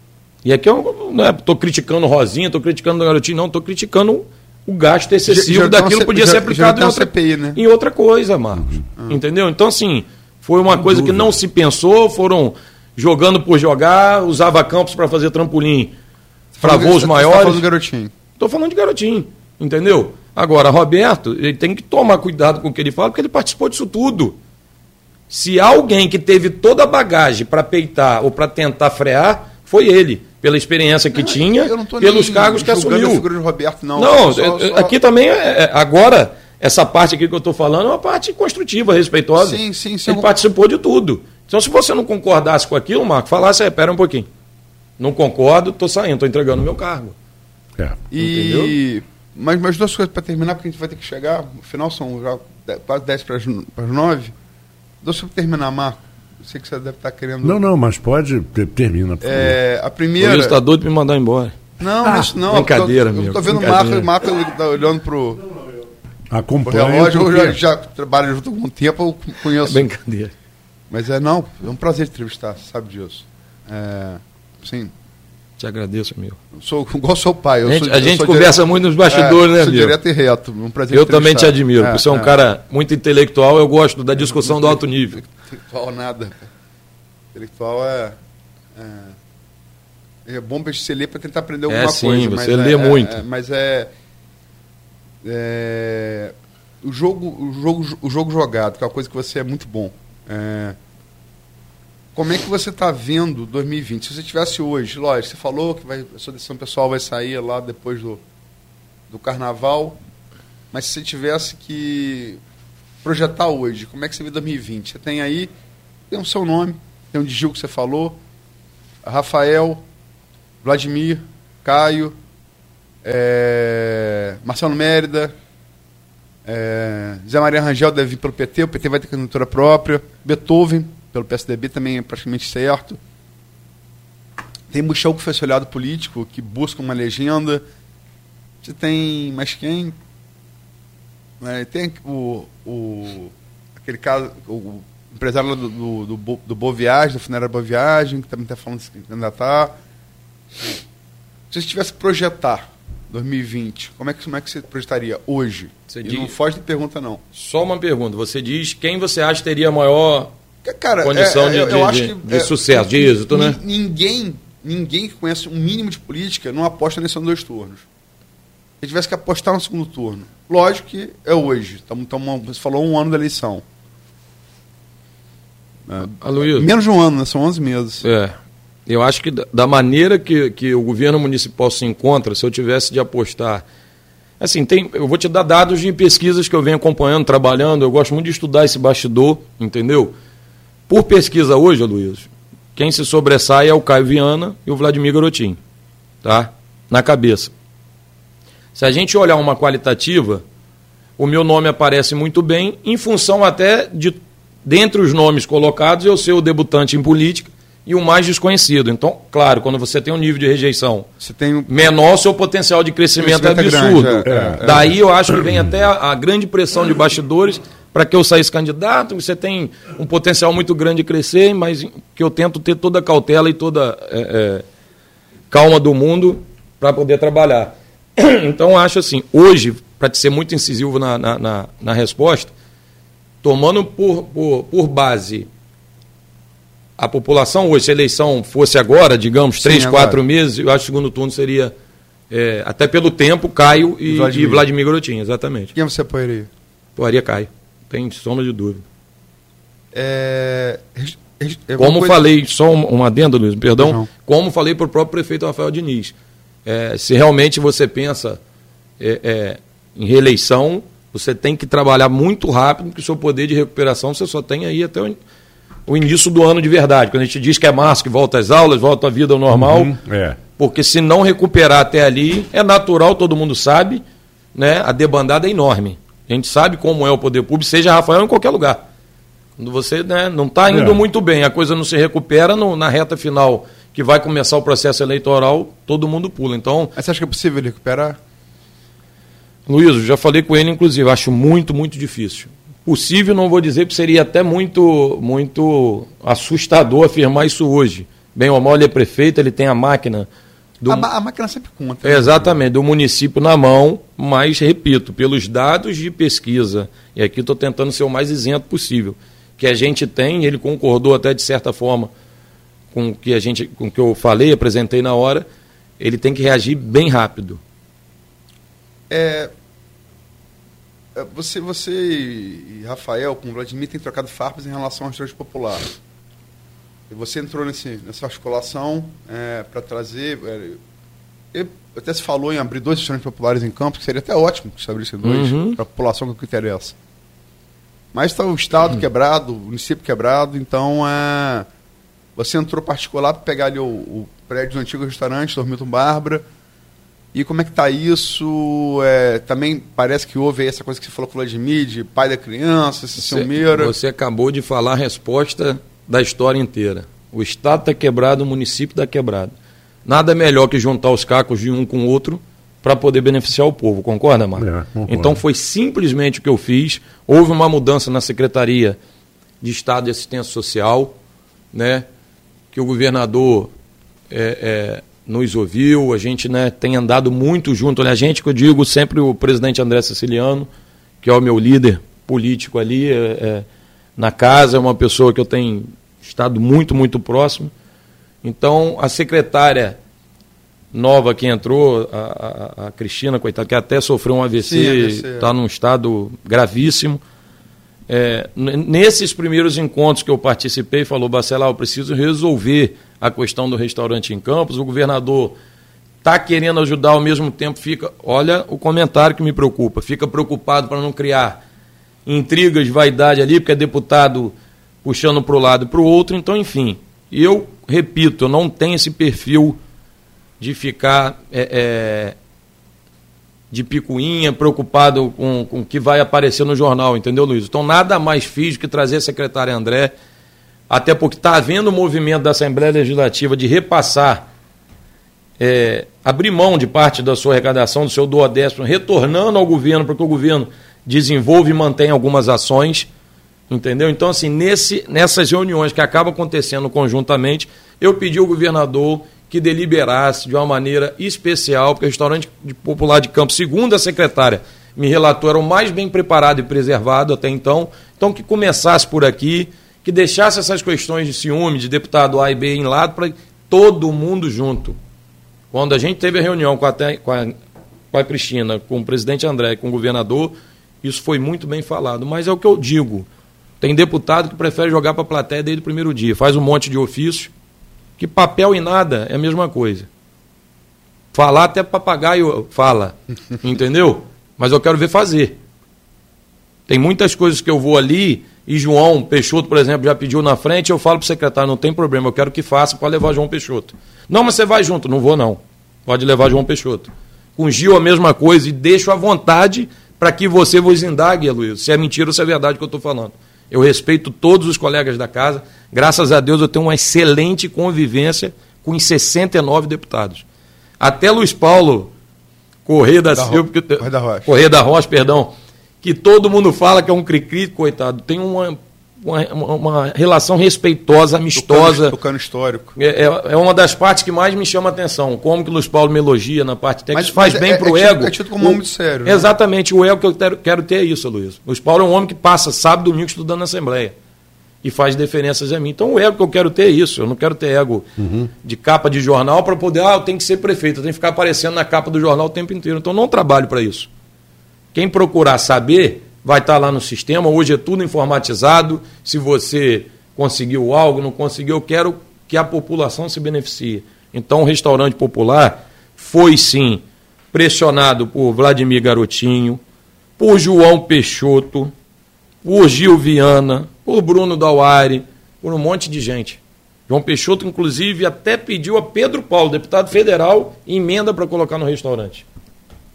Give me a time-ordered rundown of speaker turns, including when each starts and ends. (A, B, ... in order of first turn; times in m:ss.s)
0:00.4-0:16.0 A
0:05.3-0:07.6 B
0:10.7-0:11.3 C
0:16.5-0:18.1 B
0:16.6-0:17.6 A
0:18.4-0:24.4 A
0:25.3-0:33.3 A
0:31.1-0:34.9 B
0:34.0-0:44.3 A
0:39.4-0:40.3 B
0:45.0-0:47.1 A
0:48.1-0:54.3 B
0:48.2-0:48.7 A
0:55.0-0:57.6 B
0:57.4-0:59.6 C
0:59.2-1:00.6 B
1:00.2-1:01.6 A
1:01.8-1:05.5 B
1:02.0-1:02.3 C
1:02.5-1:04.1 A
1:06.3-1:07.6 C
1:06.6-1:09.8 B
1:09.6-1:10.3 A
1:10.9-1:14.9 B
1:15.6-1:16.4 A
1:16.5-1:22.4 B
1:17.6-1:20.0 A
1:20.9-1:25.2 A
1:24.1-1:26.5 B
1:27.3-1:28.2 B
1:28.8-1:29.1 B
1:30.2-1:33.9 B
1:31.7-1:33.2 A
1:35.2-1:40.8 B
1:42.1-1:48.2 B
1:49.1-1:50.0 B
1:50.7-1:52.4 B
1:53.0-1:55.5 B
1:56.1-1:58.2 B
1:59.0-1:59.8 B
2:00.6-2:02.1 B
2:03.0-2:05.3 B
2:06.4-2:13.0 B
2:14.7-2:17.6 B
2:18.6-2:20.0 B
2:21.4-2:29.7 B
2:31.5-2:37.2 B
2:35.9-2:36.3 A
2:37.3-2:40.3 A
2:40.6-2:47.8 B
2:41.0-2:43.6 A
2:48.8-2:53.6 B
2:55.9-2:58.0 B
2:56.2-2:56.7 A
2:58.0-3:03.6 A
3:04.4-3:10.1 A
3:10.9-3:15.6 A
3:16.2-3:17.5 A
3:18.7-3:20.4 A
3:21.2-3:31.1 A
3:31.2-3:31.7 B
3:31.7-3:44.6 A
3:33.2-3:34.9 B
3:34.2-3:35.7 C
3:45.5-3:52.5 A
3:53.4-3:55.5 A
3:57.0-4:01.7 A
3:59.6-4:00.2 B
4:02.3-4:05.7 A
4:04.0-4:04.6 B
4:05.7-4:06.5 B
4:07.0-4:08.8 A
4:09.9-4:12.2 B
4:11.8-4:16.1 A
4:13.8-4:14.1 B
4:16.6-4:18.4 A
4:19.0-4:25.2 A
4:25.9-4:29.9 A
4:29.5-4:30.4 C
4:30.6-4:34.0 A
4:34.5-4:38.8 A
4:39.6-4:46.9 A
4:40.7-4:41.0 C
4:47.0-4:48.2 B
4:49.7-5:00.3 A
5:00.8-5:01.1 A
5:00.9-5:02.6 B
5:02.0-5:12.1 A
5:12.9-5:15.5 A
5:16.0-5:17.6 A
5:19.1-5:19.5 B
5:21.1-5:25.9 B
5:27.1-5:30.8 B
5:31.5-5:37.0 B
5:35.2-5:35.8 A
5:38.1-5:41.7 B
5:42.4-5:46.4 B
5:47.3-5:53.9 B
5:53.2-5:59.5 A
6:00.0-6:09.0 A
6:04.6-6:05.4 C
6:09.6-6:11.2 A
6:11.7-6:12.0 A
6:12.7-6:13.7 A
6:14.3-6:20.7 A
6:21.2-6:27.7 A
6:28.4-6:30.0 A
6:30.9-6:37.2 A
6:34.6-6:35.5 B
6:38.1-6:45.6 A
6:46.2-6:51.6 A
6:52.2-6:59.8 A
7:00.6-7:02.4 A
7:03.7-7:10.1 A
7:10.9-7:14.5 A
7:15.6-7:23.1 A
7:23.7-7:45.0 A
7:45.7-7:47.6 A
7:48.1-7:53.3 A
7:53.8-7:57.5 A
7:58.2-8:00.1 A
8:01.3-8:05.6 A
8:06.9-8:30.4 A
8:31.0-8:32.1 A
8:32.8-8:42.1 A
8:33.3-8:34.5 B
8:41.5-8:42.9 B
8:43.0-8:54.1 A
8:47.1-8:49.5 B
8:54.8-8:58.1 A
8:58.2-8:58.5 C
8:58.6-9:04.1 A
9:04.9-9:19.8 A
9:20.4-9:21.9 A
9:22.6-9:32.4 A